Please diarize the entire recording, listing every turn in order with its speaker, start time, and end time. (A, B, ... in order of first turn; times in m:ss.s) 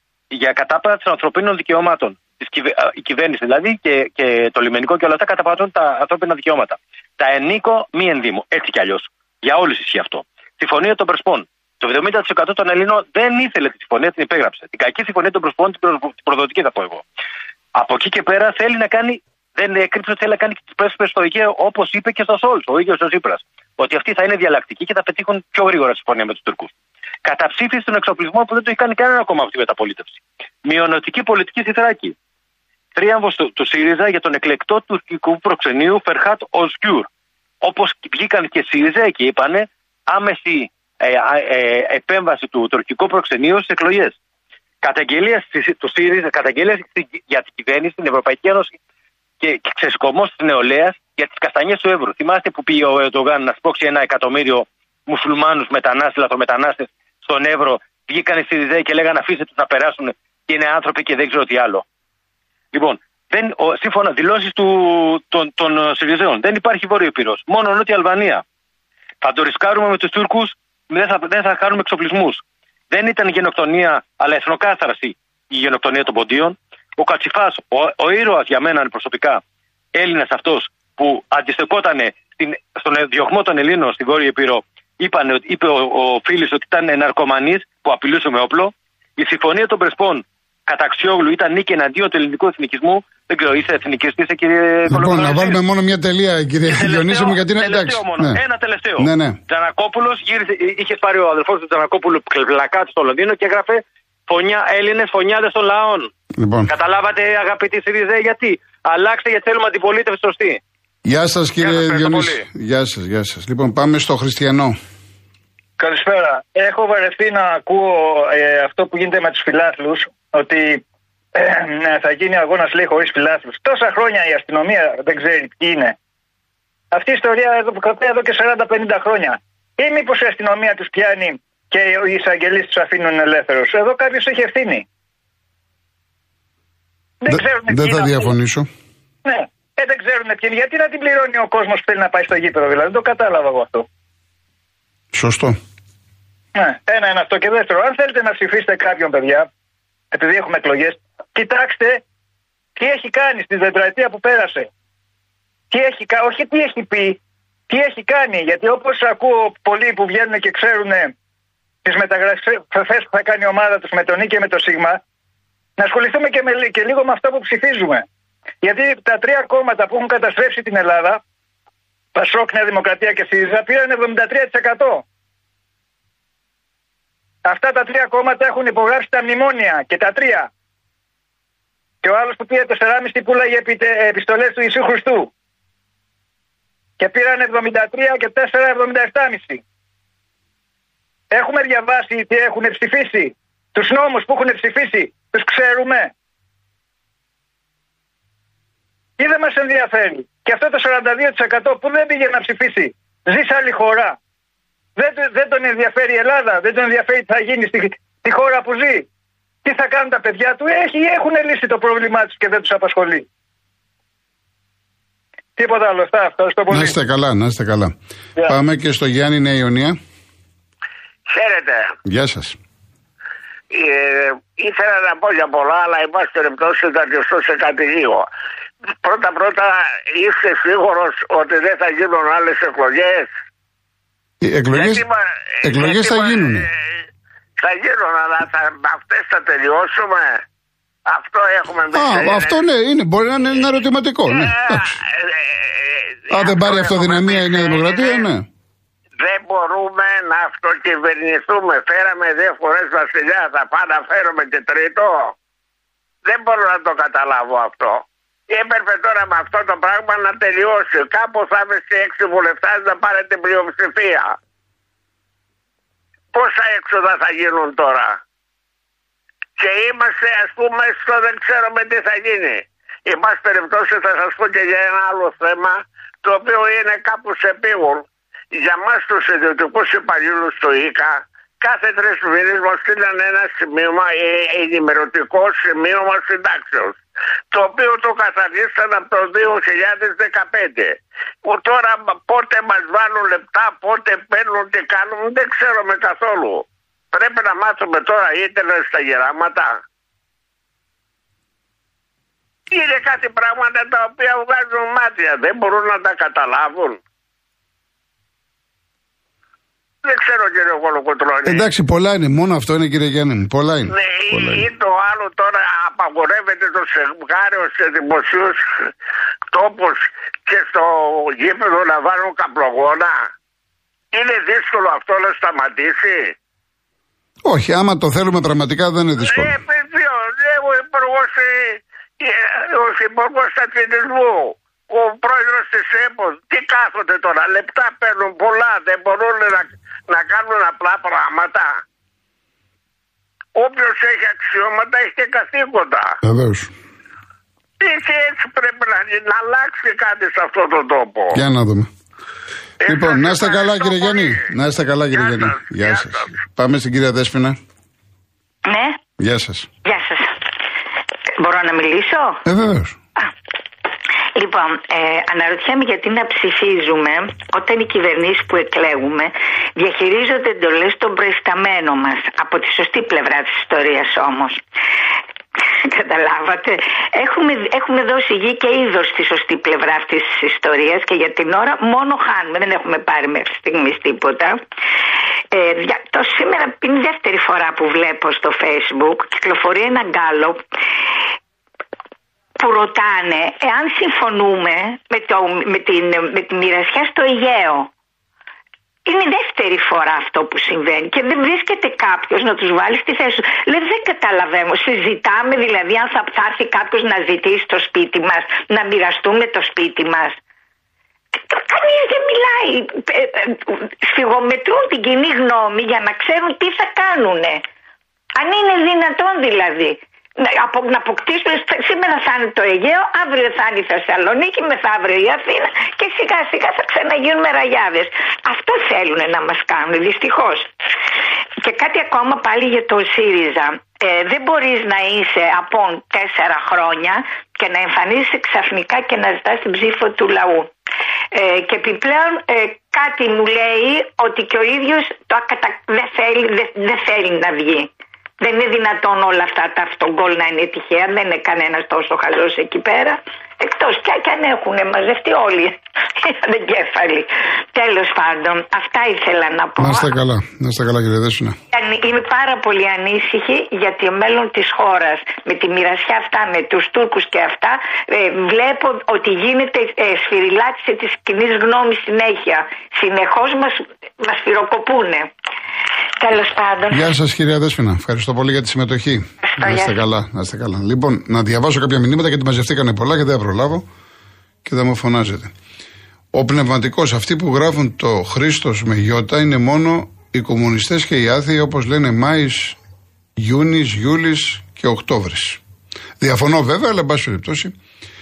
0:00.3-0:17.0 A
0:17.7-0:26.7 A
0:27.2-0:32.2 A
0:33.0-0:37.1 A
0:37.6-0:44.2 A
0:44.8-0:48.8 A
0:49.4-1:01.8 A
1:02.7-1:08.4 A
1:09.2-1:19.4 A
1:19.9-1:35.6 A
1:34.9-1:38.4 B
1:36.7-1:46.1 A
1:39.0-1:39.4 B
1:46.4-1:46.7 B
1:46.7-1:50.6 A
1:51.0-1:54.8 B
1:51.6-1:52.4 A
1:55.8-2:00.8 C
2:01.4-2:05.9 C
2:06.9-2:14.8 C
2:17.2-2:18.3 C
2:17.3-2:18.7 B
2:19.2-2:23.9 C
2:25.1-2:25.6 B
2:26.6-2:29.5 C
2:30.1-2:32.0 C
2:32.8-2:34.7 C
2:35.7-2:37.2 C
2:37.7-2:41.1 C
2:41.8-2:45.0 C
2:45.8-2:48.0 C
2:48.6-2:51.2 C
2:52.2-2:55.0 C
2:57.4-3:00.5 C
3:02.0-3:05.3 C
3:07.0-3:09.6 C
3:11.3-3:16.1 C
3:19.2-3:24.2 C
3:25.0-3:29.0 C
3:29.6-3:33.2 C
3:35.6-3:36.9 C
3:36.7-3:40.0 B
3:41.3-3:41.9 D
3:42.0-3:42.6 B
3:43.7-3:48.3 D
3:49.0-3:53.3 D
3:54.4-3:55.1 B
3:54.7-3:57.0 D
3:55.6-3:56.7 B
3:57.6-4:00.4 D
4:01.1-4:02.6 D
4:01.9-4:05.0 B
4:04.3-4:08.3 D
4:06.3-4:08.5 B
4:09.2-4:15.4 D
4:16.2-4:24.3 D
4:26.3-4:28.2 D
4:29.6-4:47.0 D
4:47.5-4:59.8 D
5:02.7-5:07.0 D
5:10.0-5:11.7 D
5:11.4-5:14.7 B
5:13.9-5:18.6 D
5:19.5-5:23.2 D
5:24.1-5:26.3 D
5:27.4-5:29.6 B
5:29.3-5:41.7 D
5:43.6-5:46.2 D
5:46.2-5:46.7 B
5:47.8-5:51.4 D
5:51.3-5:51.9 B
5:52.8-5:54.4 D
5:52.8-5:57.6 B
5:55.1-5:56.3 D
5:58.7-5:59.0 E
5:59.2-5:59.7 B
5:59.8-6:00.4 E
6:01.4-6:02.4 E
6:02.4-6:03.0 B
6:04.4-6:14.6 E
6:15.8-6:24.6 E
6:25.5-6:30.6 E
6:32.6-6:37.9 E
6:39.1-6:50.4 E
6:51.4-6:57.6 E
6:58.4-7:10.7 E
7:11.6-7:20.7 E
7:21.3-7:27.9 E
7:28.4-7:40.1 E
7:39.8-7:41.6 B
7:41.7-7:55.3 E
7:56.2-7:57.1 E
7:56.9-8:03.9 B
7:59.4-8:00.0 E
8:04.6-8:05.5 B
8:06.3-8:12.8 B
8:13.4-8:15.6 B
8:16.2-8:17.7 B